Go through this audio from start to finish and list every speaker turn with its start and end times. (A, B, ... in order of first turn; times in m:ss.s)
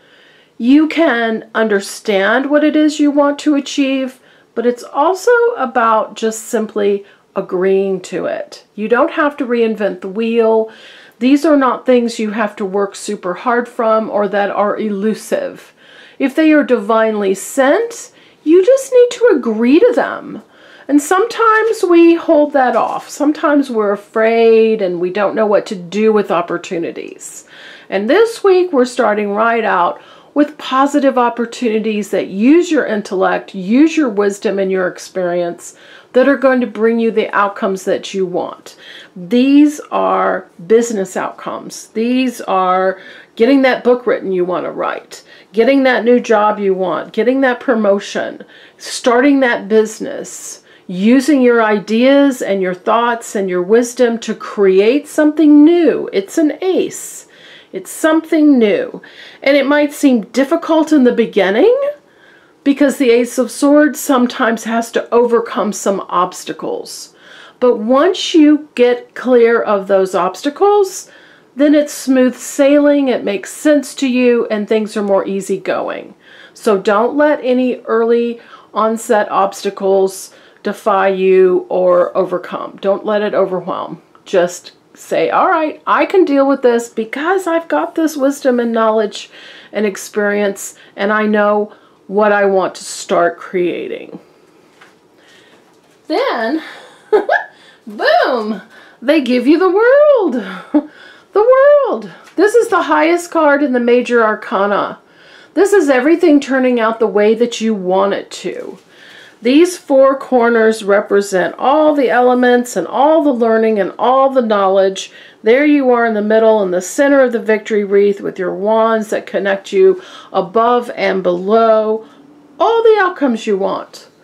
0:00.6-1:01.8 A
1:02.6-1:34.2 A
1:36.1-1:45.0 A
1:45.5-1:48.8 A
1:49.4-2:02.0 A
2:02.6-2:04.1 A